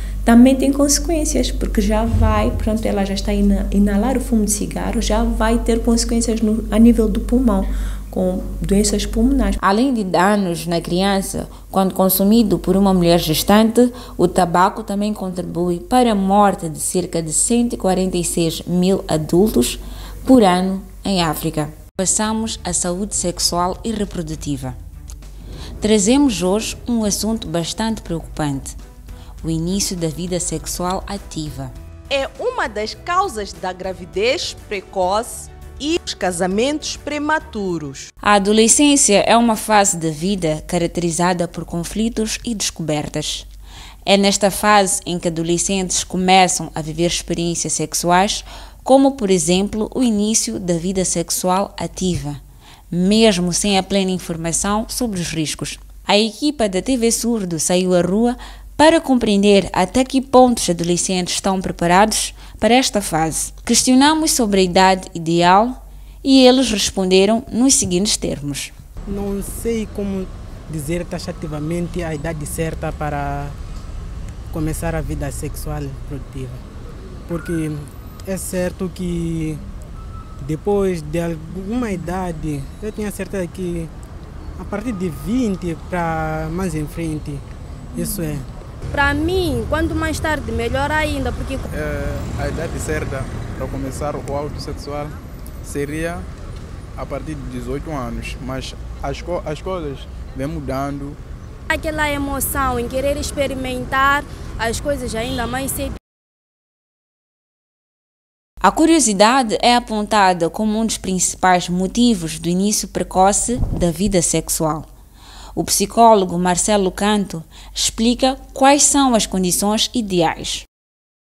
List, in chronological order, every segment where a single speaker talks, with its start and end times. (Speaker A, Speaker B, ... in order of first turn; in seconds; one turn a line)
Speaker A: 0.2-9.6
Speaker B: 9.6-24.8
Speaker B: 25.8-28.8
Speaker B: 29.4-31.7
Speaker C: 32.1-38.1
Speaker B: 38.2-43.5
Speaker B: 44.0-68.7
Speaker D: 69.1-73.5
Speaker D: 74.5-76.6
Speaker D: 77.3-79.6
Speaker D: 80.4-83.9
Speaker D: 84.6-87.4
Speaker D: 87.9-88.5
Speaker E: 88.9-91.7
Speaker F: 91.7-96.3
Speaker F: 97.0-101.2
Speaker E: 101.7-105.9
Speaker B: 108.6-114.9
Speaker B: 115.5-120.6